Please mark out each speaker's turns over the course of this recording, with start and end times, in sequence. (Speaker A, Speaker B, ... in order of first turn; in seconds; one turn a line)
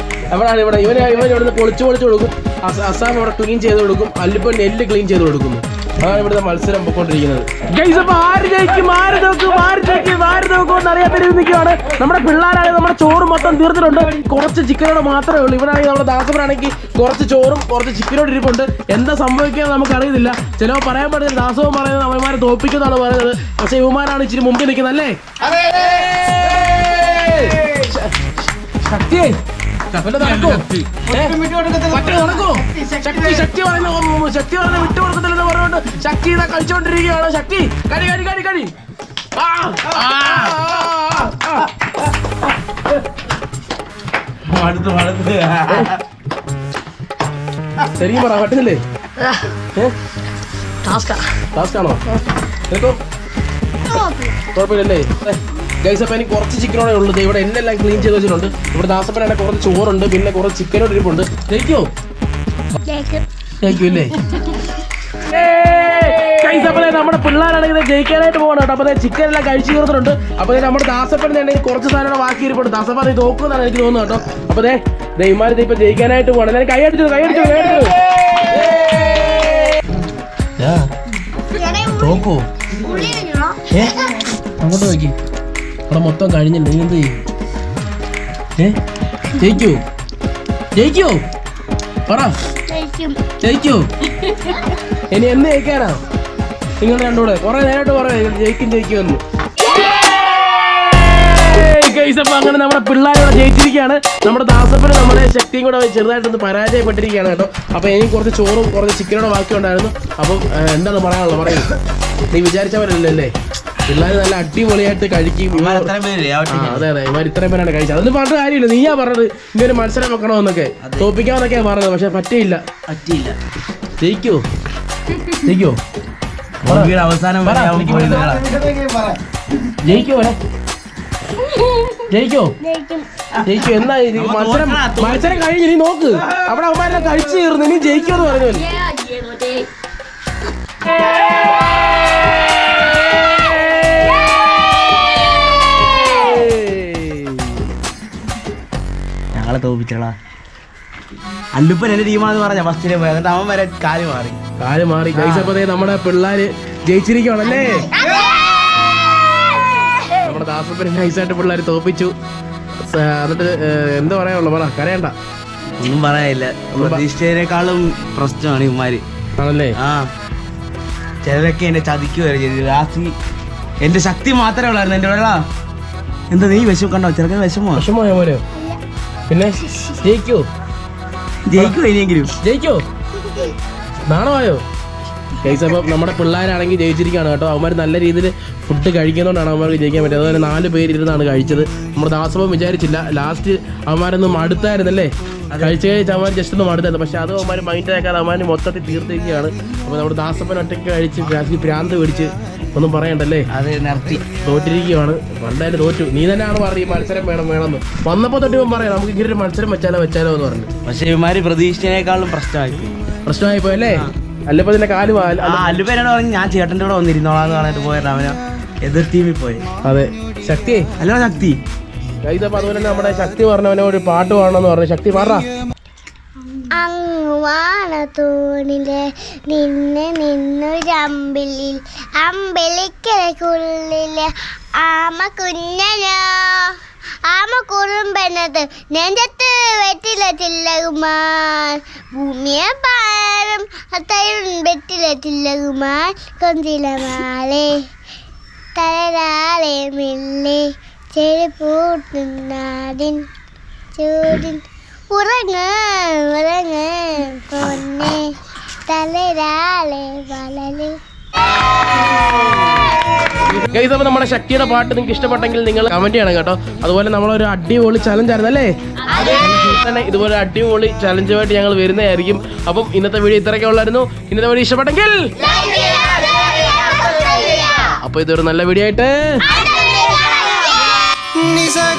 Speaker A: 0.3-25.2
Speaker B: 25.4-27.9
Speaker A: 25.7-28.2
Speaker A: 28.8-29.4
Speaker A: 29.9-31.4
Speaker C: 30.2-31.0
Speaker B: 31.1-33.5
Speaker A: 31.9-38.7
Speaker A: 39.4-41.7
Speaker C: 40.2-40.5
Speaker C: 44.5-46.0
Speaker A: 47.9-48.8
Speaker A: 51.5-52.0
Speaker A: 52.7-53.0
Speaker D: 54.0-54.3
Speaker A: 54.5-61.9
Speaker D: 62.9-63.2
Speaker A: 63.6-64.2
Speaker A: 65.2-79.8
Speaker B: 77.3-77.9
Speaker A: 80.6-80.9
Speaker D: 81.5-82.2
Speaker A: 81.9-82.5
Speaker D: 82.8-83.6
Speaker A: 83.7-84.0
Speaker A: 84.6-85.2
Speaker A: 85.9-87.2
Speaker A: 89.3-89.8
Speaker A: 90.8-91.2
Speaker A: 92.1-92.3
Speaker D: 92.7-93.2
Speaker A: 93.4-93.9
Speaker A: 95.1-96.0
Speaker A: 96.8-99.2
Speaker A: 100.4-111.7
Speaker A: 112.3-113.3
Speaker A: 113.9-115.9
Speaker C: 115.5-116.9
Speaker A: 116.5-122.6
Speaker C: 120.8-121.1
Speaker C: 122.9-123.4
Speaker A: 124.0-124.4
Speaker A: 125.3-125.8
Speaker C: 126.6-128.4
Speaker A: 126.6-126.9
Speaker A: 127.4-128.3
Speaker B: 127.9-129.2
Speaker A: 129.8-130.4
Speaker A: 132.1-132.5
Speaker D: 132.6-133.1
Speaker A: 133.4-138.7
Speaker C: 134.1-135.4
Speaker D: 138.8-139.6
Speaker A: 146.2-147.5
Speaker C: 149.3-150.2
Speaker C: 151.5-154.4
Speaker A: 154.6-157.9
Speaker C: 155.1-155.6
Speaker D: 157.9-159.5
Speaker B: 157.9-158.3
Speaker A: 160.2-162.1
Speaker A: 162.9-165.1
Speaker C: 165.8-169.1
Speaker A: 166.8-167.0
Speaker A: 169.4-169.8
Speaker C: 169.8-170.1
Speaker C: 171.2-173.1
Speaker C: 173.8-175.4
Speaker C: 176.3-177.9
Speaker A: 177.8-178.4
Speaker A: 179.3-180.4
Speaker C: 181.5-182.3
Speaker A: 182.4-182.8
Speaker A: 184.1-184.6
Speaker A: 185.4-203.5
Speaker C: 195.5-195.8
Speaker C: 203.5-204.2
Speaker A: 204.2-210.7
Speaker C: 210.8-212.9
Speaker A: 213.3-215.8
Speaker C: 215.4-219.7
Speaker A: 219.8-220.9
Speaker C: 221.0-221.6
Speaker A: 222.2-225.4
Speaker D: 226.7-247.8
Speaker D: 248.8-253.2
Speaker D: 254.0-258.4
Speaker D: 258.9-261.0
Speaker A: 263.4-275.2
Speaker D: 269.1-269.6
Speaker D: 275.4-277.9
Speaker A: 278.0-279.4
Speaker D: 279.4-281.0